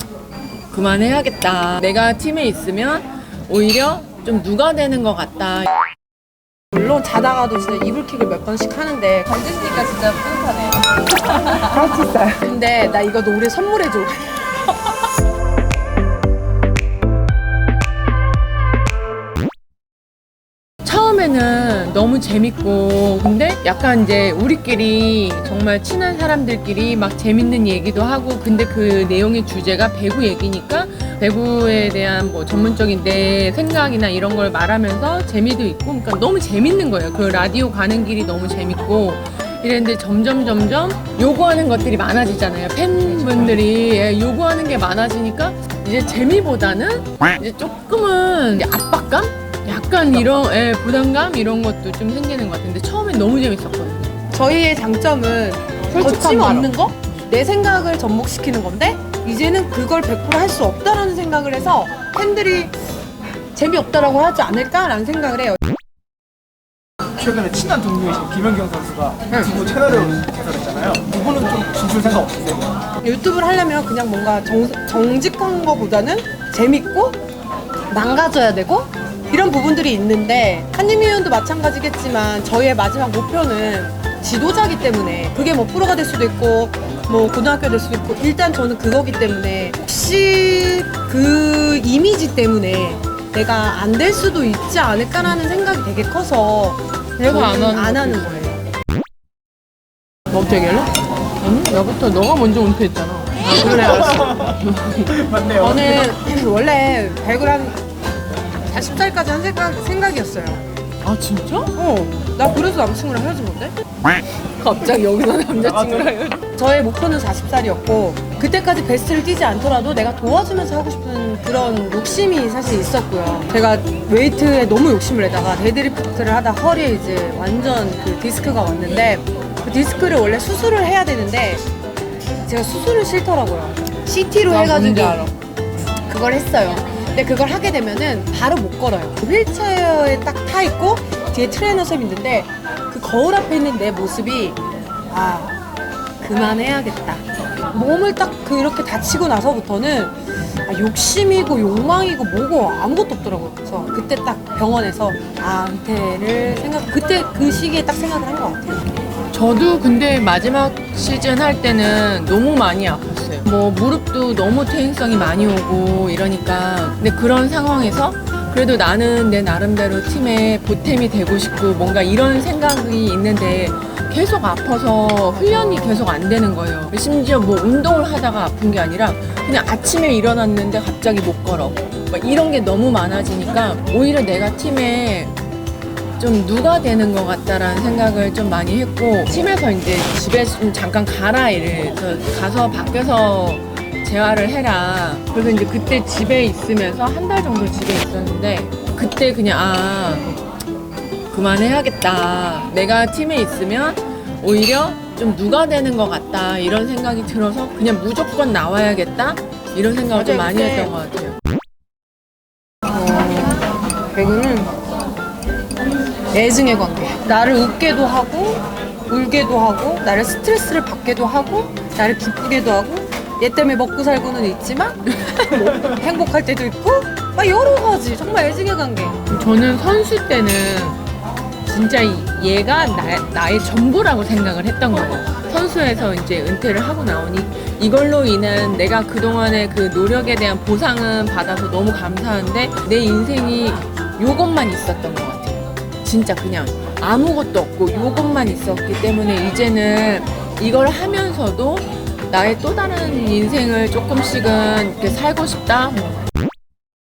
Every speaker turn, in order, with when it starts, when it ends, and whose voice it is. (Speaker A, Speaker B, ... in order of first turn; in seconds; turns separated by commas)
Speaker A: 0.7-5.7, Speaker B: 6.7-9.3, Speaker A: 9.3-14.9, Speaker B: 11.5-12.4, Speaker A: 20.8-54.2, Speaker B: 43.0-43.6, Speaker B: 54.3-62.8, Speaker A: 55.8-56.8, Speaker B: 63.5-65.6, Speaker C: 67.2-72.7, Speaker B: 73.0-77.2, Speaker B: 77.9-98.5, Speaker A: 97.2-98.6, Speaker A: 100.3-105.2, Speaker B: 103.5-104.1, Speaker B: 105.5-107.8, Speaker B: 108.6-110.6, Speaker A: 111.0-111.7, Speaker B: 111.8-113.7, Speaker A: 114.5-116.4, Speaker B: 116.6-131.6, Speaker B: 132.4-135.3, Speaker A: 134.4-135.3, Speaker B: 136.0-145.6, Speaker B: 146.2-158.8, Speaker A: 159.3-185.3, Speaker B: 175.3-176.1, Speaker A: 186.2-200.2, Speaker A: 201.3-211.4, Speaker B: 210.1-210.9, Speaker B: 212.9-214.7, Speaker B: 216.3-229.2, Speaker A: 229.3-231.0, Speaker A: 231.6-256.2